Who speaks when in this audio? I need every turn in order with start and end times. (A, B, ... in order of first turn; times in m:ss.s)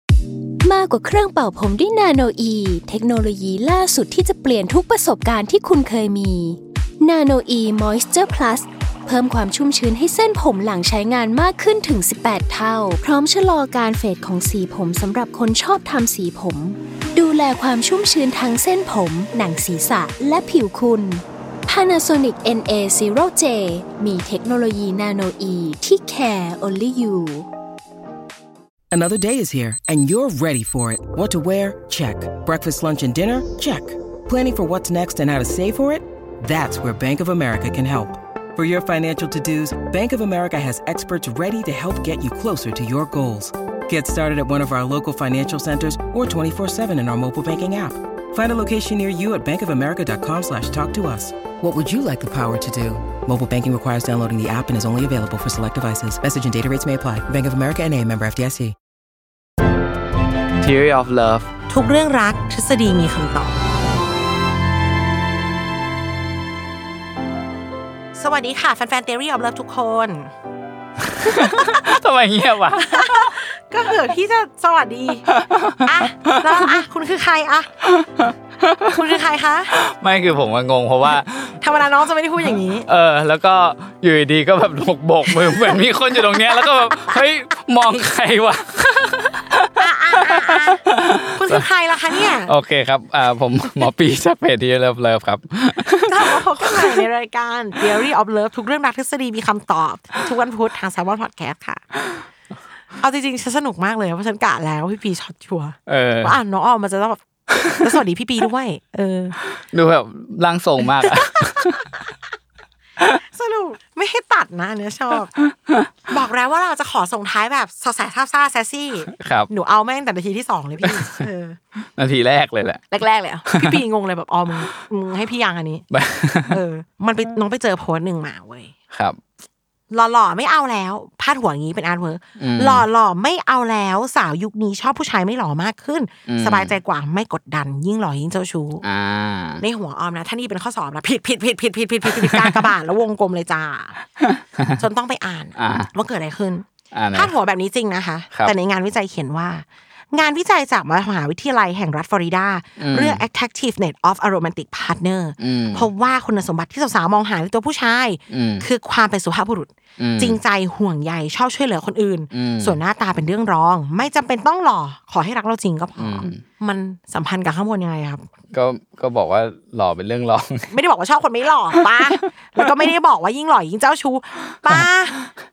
0:00.6-0:27.5 A
0:28.9-0:58.7 B
1:00.6-1:01.5 C
1:01.7-1:03.6 D
1:08.1-1:10.3 D
1:11.2-1:13.4 C
1:11.3-1:11.8 D
1:12.8-1:15.2 D
1:15.3-1:16.8 C
1:15.8-1:17.7 D
1:17.9-1:18.9 C
1:18.9-1:19.7 D
1:19.7-1:21.6 C
1:21.6-1:22.9 D
1:22.8-1:29.8 C
1:26.3-1:26.6 D
1:29.8-1:30.8 D
1:30.3-1:31.6 C
1:31.3-1:32.5 D
1:32.4-1:37.1 C
1:35.8-1:41.8 D
1:42.9-1:49.4 D
1:45.9-1:46.4 C
1:47.5-1:47.9 C
1:49.6-1:51.9 C
1:51.0-1:52.1 D
1:53.2-1:55.3 D
1:56.1-2:01.6 D
1:59.1-1:59.5 C
2:00.8-2:01.3 C
2:01.8-2:02.8 C
2:02.9-2:05.8 D
2:03.5-2:03.8 C
2:05.9-2:06.6 C
2:06.5-2:08.7 D
2:08.9-2:09.2 C
2:09.9-2:18.8 D
2:12.4-2:12.8 C
2:16.3-2:16.7 C
2:18.8-2:19.6 C
2:19.6-2:24.0 D
2:24.2-2:24.6 C
2:24.8-2:48.2 D
2:25.6-2:25.9 C
2:26.9-2:27.3 C
2:32.8-2:33.2 C
2:35.4-2:35.9 C
2:38.3-2:38.7 C
2:40.0-2:40.4 C
2:42.3-2:42.8 C
2:46.0-2:46.4 C
2:48.5-2:50.7 C
2:50.7-2:55.2 D
2:51.8-2:52.6 C